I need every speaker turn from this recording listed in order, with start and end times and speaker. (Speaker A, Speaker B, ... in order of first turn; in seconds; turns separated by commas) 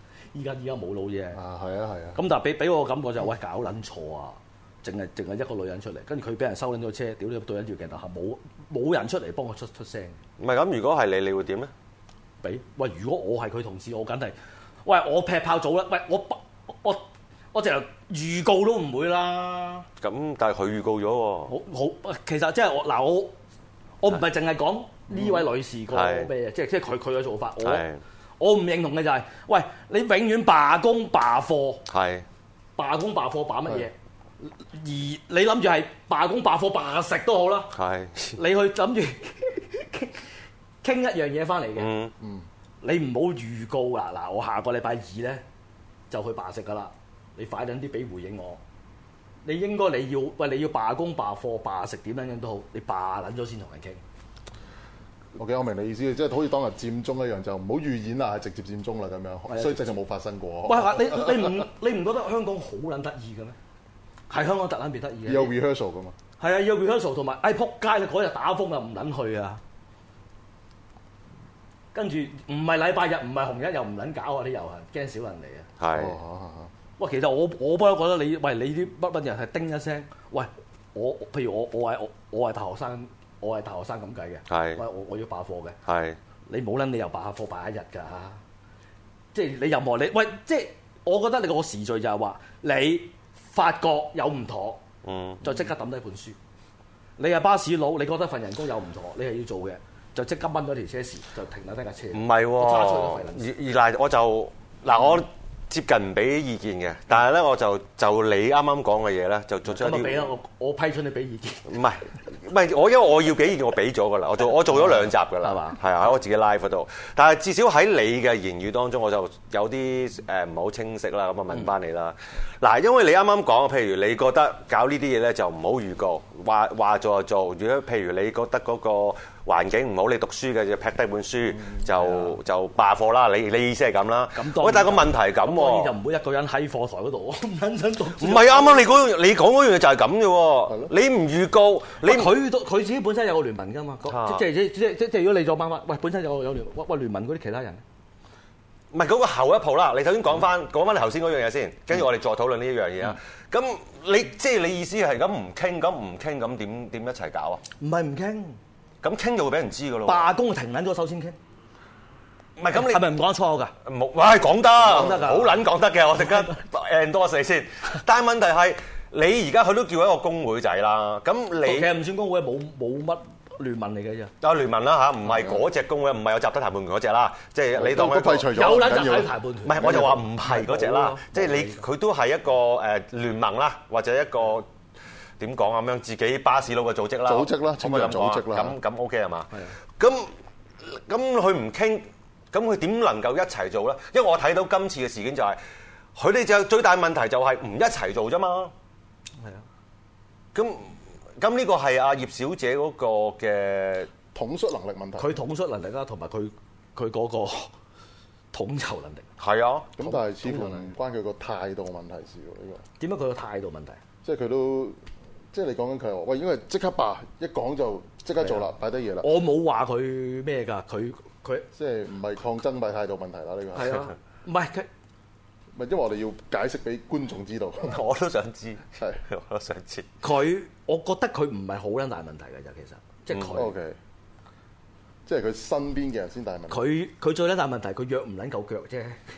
Speaker A: 0.3-1.4, Speaker B: 1.3-2.2, Speaker A: 2.2-10.2, Speaker C: 10.4-11.7, Speaker A: 12.4-19.9, Speaker C: 20.0-21.5, Speaker A: 21.5-23.4, Speaker A: 24.0-27.8, Speaker C: 25.9-26.3, Speaker C: 27.6-28.0, Speaker A: 28.4-31.8, Speaker C: 31.9-32.3, Speaker A: 32.8-37.7, Speaker C: 37.7-38.4, Speaker A: 38.4-40.2, Speaker A: 40.8-41.9, Speaker C: 41.8-42.1, Speaker B: 42.2-42.5, Speaker A: 42.8-45.4, Speaker A: 46.1-48.6, Speaker A: 49.5-54.0, Speaker B: 55.4-61.6, Speaker A: 59.5-59.8, Speaker A: 60.7-63.6, Speaker A: 64.3-65.5, Speaker B: 65.3-66.2, Speaker A: 66.4-69.6, Speaker A: 71.9-75.7, Speaker C: 75.8-76.2, Speaker B: 75.9-76.7, Speaker A: 77.0-85.8, Speaker C: 84.5-84.8, Speaker C: 85.9-86.2, Speaker A: 86.5-88.4, Speaker A: 89.3-94.8, Speaker C: 95.0-95.4, Speaker A: 95.4-96.4, Speaker A: 97.2-103.5, Speaker C: 102.1-110.3, Speaker A: 109.7-111.7, Speaker C: 111.7-135.9, Speaker A: 114.7-115.8, Speaker A: 134.3-138.8, Speaker C: 138.2-142.3, Speaker A: 142.0-147.8, Speaker C: 144.1-144.4, Speaker C: 148.9-157.6, Speaker A: 157.8-158.6, Speaker C: 159.0-160.3, Speaker A: 160.1-161.4, Speaker C: 162.6-163.2, Speaker A: 162.7-163.7, Speaker C: 163.8-171.9, Speaker A: 164.8-165.7, Speaker A: 166.2-166.5, Speaker A: 171.6-174.3, Speaker C: 174.4-178.5, Speaker B: 177.7-180.2, Speaker A: 178.5-181.8, Speaker C: 179.7-184.7, Speaker C: 185.4-190.3, Speaker B: 187.2-188.8, Speaker C: 190.8-195.6, Speaker C: 196.2-198.7, Speaker A: 199.4-199.7, Speaker C: 200.6-204.1, Speaker B: 204.3-205.4, Speaker A: 205.2-207.7, Speaker A: 208.5-209.3, Speaker C: 209.4-209.9, Speaker B: 210.0-212.8, Speaker A: 210.0-210.9, Speaker A: 213.0-214.0, Speaker B: 214.2-215.0, Speaker B: 215.5-219.3, Speaker A: 218.4-218.7, Speaker A: 219.2-221.7, Speaker B: 221.8-224.0, Speaker A: 223.8-224.9, Speaker B: 225.8-228.0, Speaker C: 227.9-230.1, Speaker B: 228.9-229.2, Speaker A: 230.2-233.7, Speaker B: 233.5-234.0, Speaker B: 235.3-236.9, Speaker A: 236.7-239.2